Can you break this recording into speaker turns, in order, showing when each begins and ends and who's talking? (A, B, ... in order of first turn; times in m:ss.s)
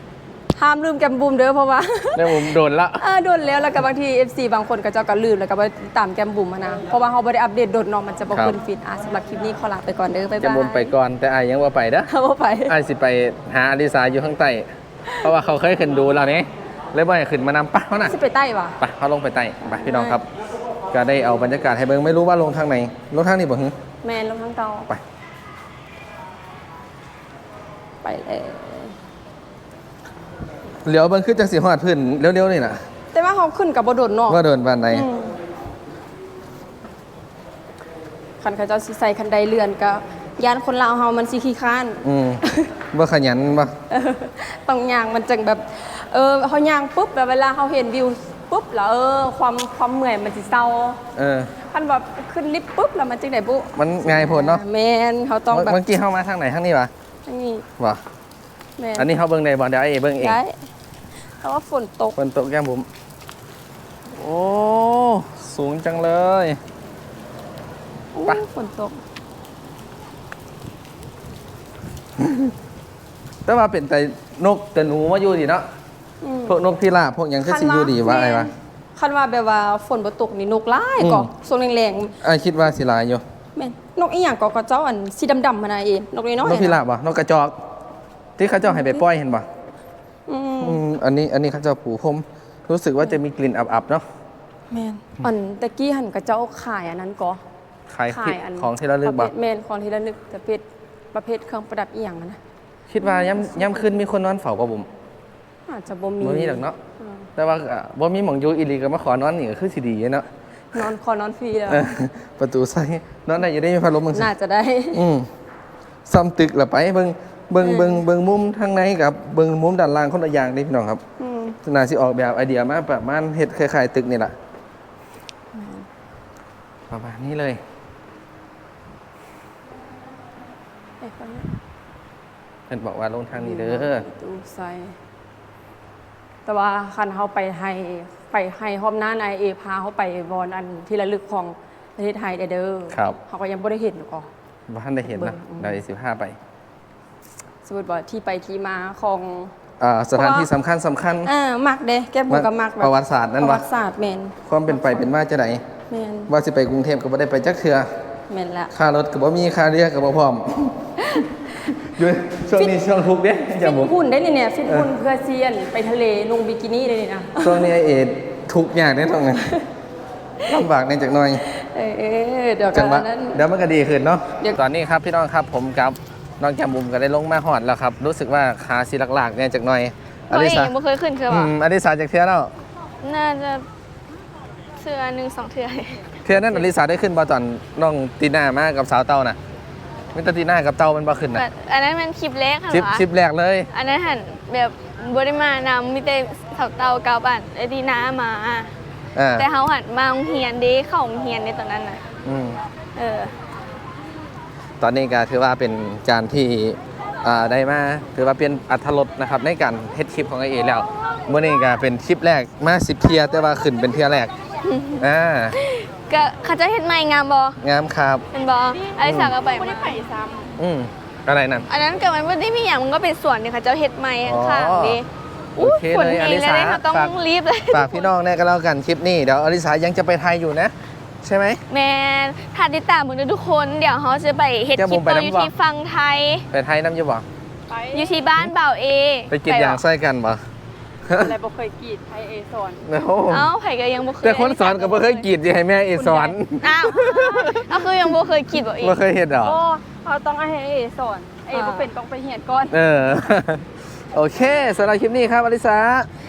0:00.6-0:10.9 A
0:02.2-0:03.0 B
0:10.4-0:12.1 B
0:12.1-0:12.7 A
0:12.7-0:14.7 B
0:15.2-0:18.1 B
0:18.0-0:18.8 A
0:18.8-0:20.3 B
0:19.6-0:20.2 A
0:20.9-0:23.8 B
0:24.0-0:24.9 A
0:28.0-0:28.9 A
0:30.8-0:32.8 B
0:33.1-0:35.4 A
0:34.3-0:35.1 B
0:38.4-0:42.7 A
0:42.0-0:43.7 B
0:43.9-0:51.0 A
0:51.2-0:51.5 B
0:51.6-0:55.8 A
0:53.8-0:54.6 B
0:55.5-0:56.9 B
0:57.3-0:57.7 A
0:58.8-0:59.1 A
0:59.0-1:00.4 B
1:00.2-1:00.5 A
1:01.4-1:02.2 A
1:02.2-1:02.9 B
1:04.1-1:06.6 B
1:08.1-1:09.0 A
1:12.2-1:12.5 B
1:13.5-1:15.7 B
1:16.2-1:16.6 A
1:16.5-1:18.5 B
1:17.4-1:22.2 A
1:21.0-1:21.3 B
1:22.2-1:23.2 B
1:23.6-1:26.8 A
1:26.4-1:27.6 B
1:28.4-1:29.5 B
1:28.7-1:29.0 A
1:30.3-1:30.8 A
1:30.6-1:34.0 B
1:34.7-1:37.4 A
1:37.9-1:39.3 B
1:38.1-1:42.4 A
1:42.9-1:44.9 B
1:43.0-1:43.9 A
1:45.7-1:47.3 A
1:46.2-1:46.8 B
1:47.4-1:50.3 B
1:50.7-1:51.9 A
1:51.7-1:54.3 B
1:54.1-1:55.0 A
1:54.9-1:55.3 B
1:56.1-2:01.0 B
1:57.6-1:58.0 A
2:01.2-2:01.6 A
2:01.6-2:04.4 B
2:05.5-2:05.9 A
2:06.9-2:07.6 B
2:11.0-2:11.5 A
2:12.7-2:14.0 B
2:13.4-2:15.0 A
2:16.5-2:24.3 A
2:22.9-2:23.2 B
2:24.7-2:26.4 B
2:25.0-2:25.8 A
2:27.6-2:29.5 A
2:29.8-2:31.3 B
2:30.1-2:30.5 A
2:31.2-2:35.0 A
2:32.3-2:33.6 B
2:34.5-2:35.6 B
2:35.9-2:36.3 A
2:36.3-2:37.9 B
2:38.3-2:38.7 A
2:38.7-2:43.9 B
2:43.5-2:47.7 A
2:47.4-2:49.5 B
2:50.5-2:51.4 B
2:51.5-2:53.4 A
2:52.7-3:00.7 B
3:00.3-3:01.5 C
3:01.3-3:02.5 B
3:03.0-3:03.6 C
3:04.8-3:06.5 C
3:06.2-3:09.4 B
3:10.1-3:11.4 B
3:11.4-3:13.0 C
3:12.7-3:13.7 B
3:13.7-3:18.7 C
3:19.2-3:19.5 B
3:19.4-3:22.0 C
3:22.2-3:22.6 B
3:23.0-3:23.3 C
3:24.8-3:34.3 B
3:31.3-3:31.6 C
3:34.6-3:37.6 C
3:35.0-3:35.6 B
3:37.6-3:38.2 B
3:38.3-3:40.0 C
3:38.7-3:40.5 A
3:39.0-3:39.3 B
3:40.6-3:41.7 B
3:41.7-3:48.1 C
3:44.2-3:45.0 B
3:45.6-3:47.2 B
3:47.7-3:51.6 B
3:51.7-3:56.5 C
3:54.8-3:55.5 B
3:56.5-3:57.2 B
3:57.7-3:58.1 A
3:57.9-3:59.8 C
3:59.3-4:00.4 B
4:01.1-4:01.3 B
4:01.1-4:02.8 A
4:02.8-4:03.5 B
4:03.3-4:05.2 C
4:04.2-4:08.1 B
4:06.0-4:06.4 A
4:06.6-4:09.0 C
4:06.9-4:07.6 A
4:08.7-4:09.6 B
4:09.4-4:12.8 A
4:11.5-4:11.9 C
4:12.7-4:16.1 B